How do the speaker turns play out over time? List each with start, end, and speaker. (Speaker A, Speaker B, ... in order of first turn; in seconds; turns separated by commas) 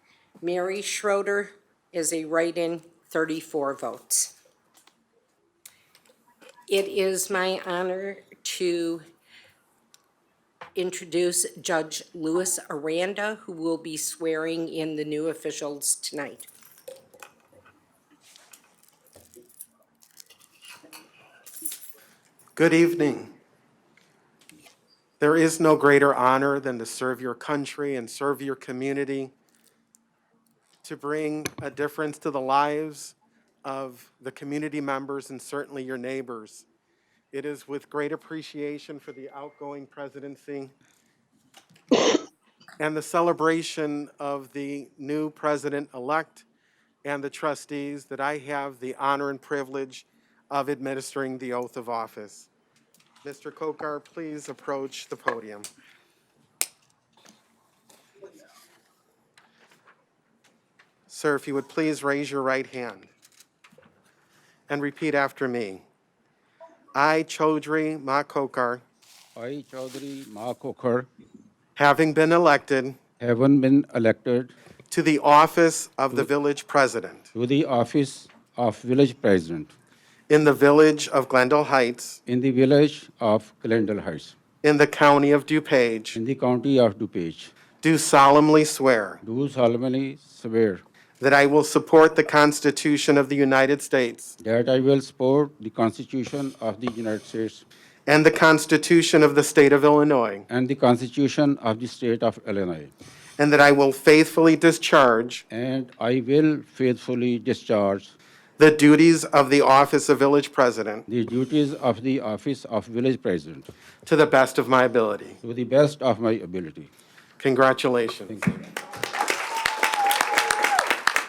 Speaker A: 0.4-4.3, Speaker A: 6.7-9.0, Speaker A: 10.7-16.5, Speaker B: 22.6-23.3, Speaker B: 25.2-29.3, Speaker B: 30.8-36.6, Speaker B: 37.3-40.7, Speaker B: 42.8-46.5, Speaker B: 47.0-52.5, Speaker B: 53.2-55.7, Speaker B: 61.1-63.1, Speaker B: 64.7-65.8, Speaker B: 66.9-68.8, Speaker C: 69.3-71.1, Speaker B: 71.8-73.0, Speaker C: 73.2-74.5, Speaker B: 74.9-77.3, Speaker C: 77.3-79.7, Speaker B: 80.3-82.2, Speaker C: 82.2-84.3, Speaker B: 84.6-86.2, Speaker C: 86.1-87.5, Speaker B: 87.8-89.2, Speaker C: 89.2-90.8, Speaker B: 91.2-94.3, Speaker C: 94.4-97.6, Speaker B: 98.0-100.5, Speaker C: 100.5-102.9, Speaker B: 103.4-105.4, Speaker C: 105.5-108.1, Speaker B: 108.6-111.0, Speaker C: 111.1-113.7, Speaker B: 114.0-115.4, Speaker C: 115.4-116.9, Speaker B: 117.4-118.3, Speaker C: 118.3-118.6